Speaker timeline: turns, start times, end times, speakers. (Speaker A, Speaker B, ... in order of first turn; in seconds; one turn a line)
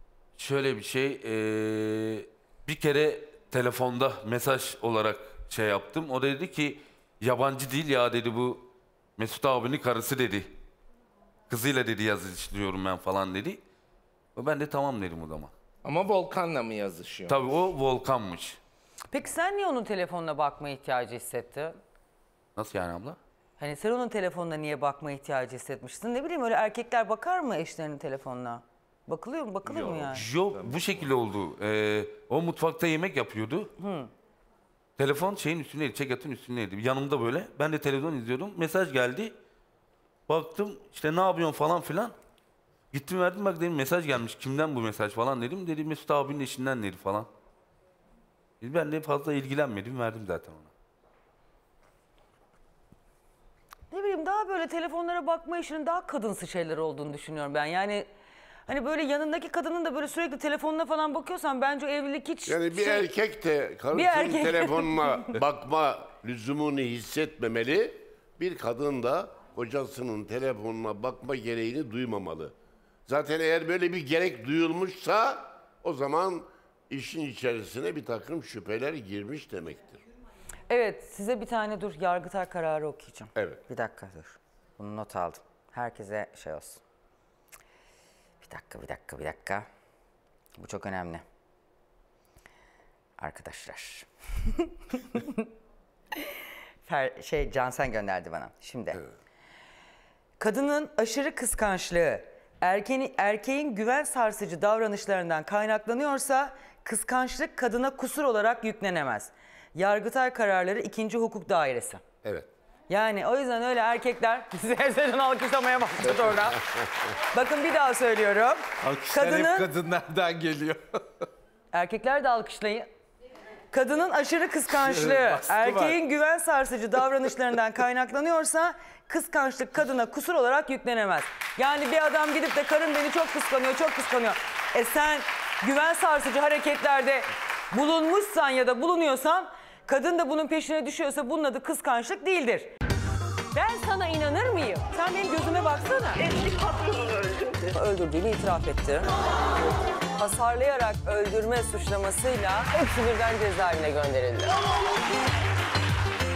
Speaker A: 0.4-10.5
Speaker A: 11.5-13.6
Speaker A: 14.3-15.5
Speaker B: 15.8-17.4
Speaker A: 17.3-18.6
Speaker C: 19.1-21.8
Speaker A: 22.6-23.2
Speaker C: 23.6-30.2
Speaker A: 30.0-33.7
Speaker B: 30.5-31.0
Speaker C: 33.8-34.1
Speaker A: 35.0-39.3
Speaker A: 40.3-42.1
Speaker A: 42.9-47.3
Speaker A: 48.6-50.7
Speaker C: 53.9-58.1
Speaker C: 58.7-63.1
Speaker D: 62.5-72.5
Speaker C: 63.9-65.4
Speaker D: 73.1-80.0
Speaker C: 80.7-86.8
Speaker D: 83.3-83.6
Speaker C: 88.4-89.7
Speaker C: 90.6-91.2
Speaker C: 93.2-95.5
Speaker C: 96.2-99.0
Speaker C: 100.4-112.0
Speaker C: 112.9-119.7
Speaker B: 118.8-121.0
Speaker C: 121.7-122.9
Speaker C: 123.7-142.7
Speaker B: 124.7-126.0
Speaker C: 143.5-146.6
Speaker C: 147.3-149.1
Speaker C: 150.1-154.6